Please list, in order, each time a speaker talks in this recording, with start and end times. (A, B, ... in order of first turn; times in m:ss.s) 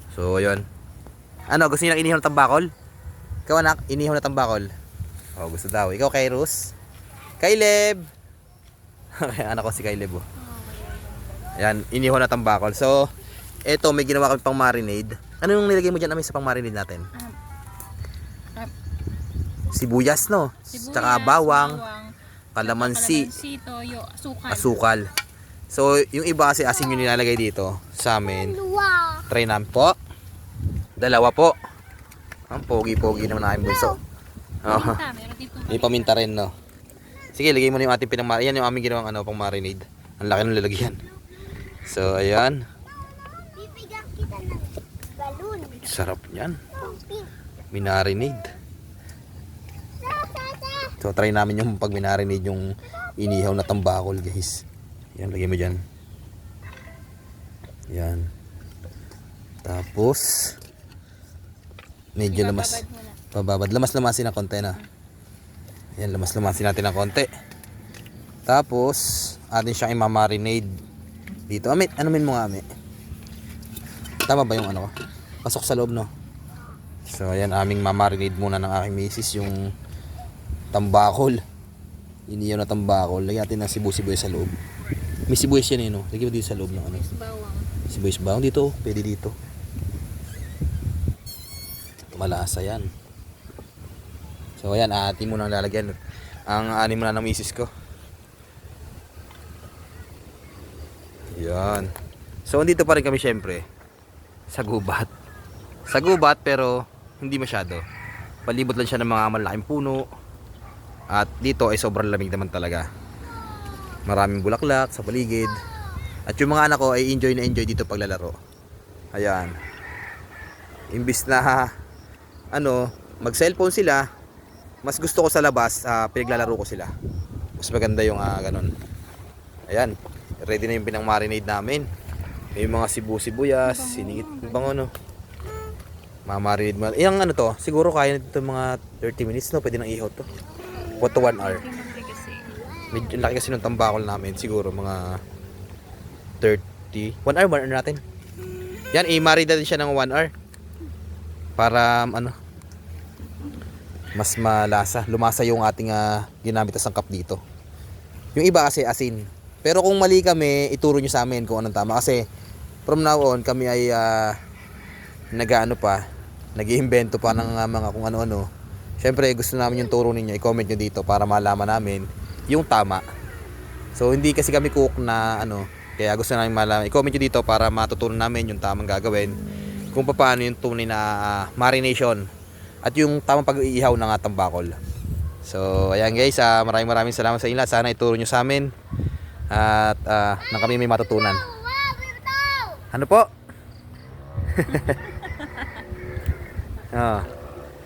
0:00.1-0:00.6 A
0:01.5-0:02.7 A
0:03.5-0:04.7 A
0:05.4-0:06.7 A
0:07.4-0:08.0 A
0:09.2-0:10.2 A
0:10.4-0:11.5 B
0:11.6-0:13.1 A
0:13.6-0:17.1 A
0:19.7-0:21.8 A
0:20.7-0:24.8 B
0:22.5-0:23.3 A
0:24.5-0:25.1 A
0:25.7-0:30.0 A
0:31.0-0:31.6 A
0:32.5-0:34.0 A
0:34.6-0:35.0 A
0:34.7-0:36.1 B
0:35.7-0:36.5 A
0:37.3-0:41.0 A
0:41.8-0:42.6 A
0:45.7-0:46.6 A
0:47.7-0:48.5 A
0:51.0-0:54.6 A
0:55.2-0:55.8 A
0:57.9-0:58.3 A
0:59.6-1:00.6 A
1:02.2-1:04.8 A
1:02.3-1:03.2 B
1:06.0-1:07.3 A
1:08.5-1:10.7 A
1:11.5-1:12.6 A
1:14.3-1:14.9 A
1:15.4-1:16.1 A
1:17.1-1:19.7 A
1:20.7-1:21.4 A
1:22.3-1:24.5 A
1:25.3-1:27.0 A
1:26.8-1:27.7 B
1:27.9-1:29.3 A
1:32.1-1:32.9 A
1:34.6-1:36.0 A
1:36.5-1:37.7 A
1:41.3-1:41.9 A
1:42.4-1:43.6 A
1:44.5-1:45.1 A
1:45.9-1:47.8 A
1:48.5-1:50.1 A
1:51.1-1:52.9 A
1:54.1-1:55.5 A
1:56.3-1:58.4 A
1:59.1-1:59.5 A
2:00.9-2:01.7 A
2:02.5-2:04.0 A
2:04.8-2:06.9 A
2:07.6-2:08.7 A
2:09.7-2:11.8 A
2:12.5-2:14.9 A
2:13.6-2:14.7 B
2:16.3-2:20.2 A
2:21.0-2:21.6 A
2:21.4-2:22.6 B
2:22.9-2:25.2 A
2:26.4-2:28.0 A
2:28.9-2:30.3 A
2:31.6-2:32.3 A
2:34.1-2:37.4 A
2:38.3-2:42.2 A
2:42.9-2:44.4 A
2:45.3-2:46.0 A
2:46.6-2:48.5 A
2:49.0-2:53.0 A
2:53.9-2:59.4 A
2:59.9-3:02.3 A
3:02.8-3:04.8 A
3:05.4-3:08.7 A
3:09.5-3:11.5 A
3:12.9-3:13.3 A
3:14.5-3:15.0 A
3:16.9-3:17.3 A